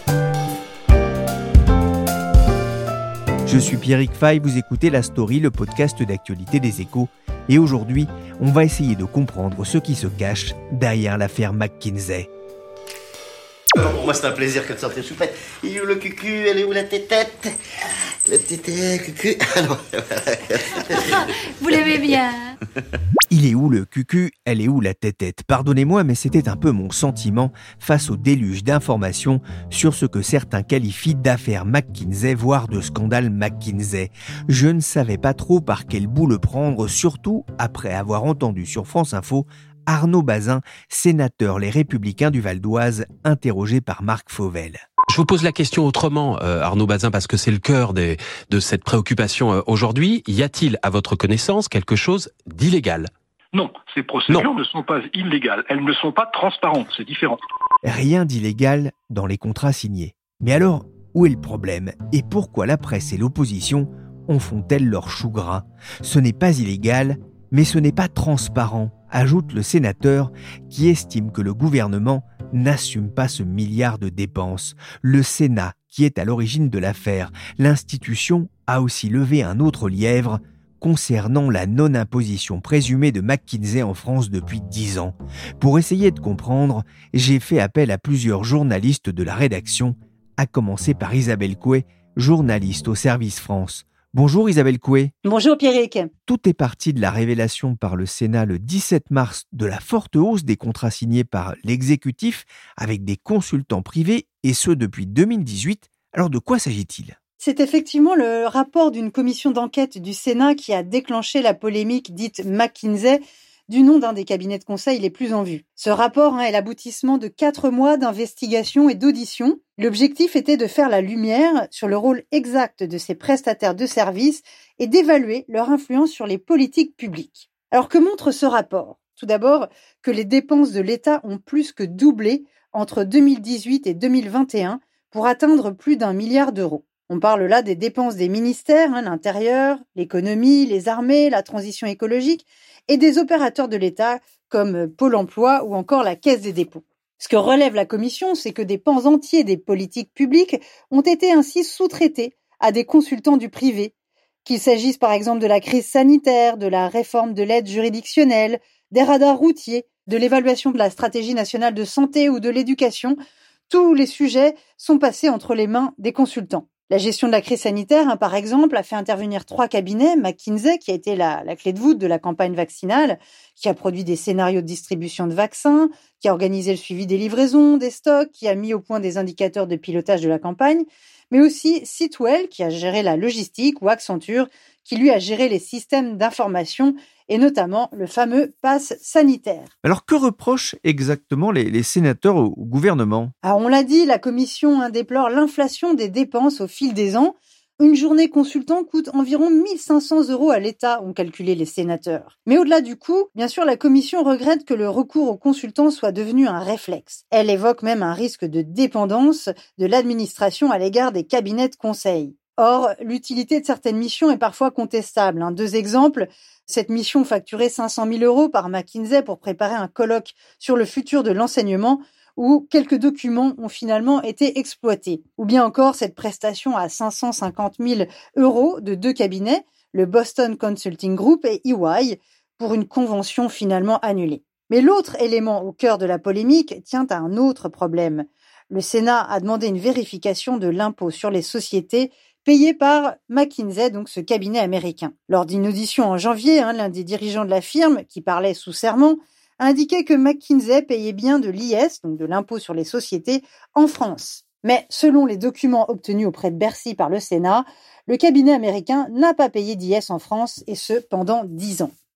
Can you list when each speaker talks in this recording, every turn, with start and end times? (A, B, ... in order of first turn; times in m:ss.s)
0:03.4-0:12.3 A
0:13.7-0:17.5 B
0:18.3-0:22.3 B
0:23.3-0:44.8 A
0:45.1-0:53.1 C
0:53.5-0:57.4 D
0:57.8-1:35.1 A
1:35.2-1:36.1 E
1:36.3-1:47.2 A
1:47.4-2:33.9 E
2:34.4-2:43.2 E
2:43.7-3:09.7 E
3:09.8-3:13.3 A
3:13.4-4:21.9 E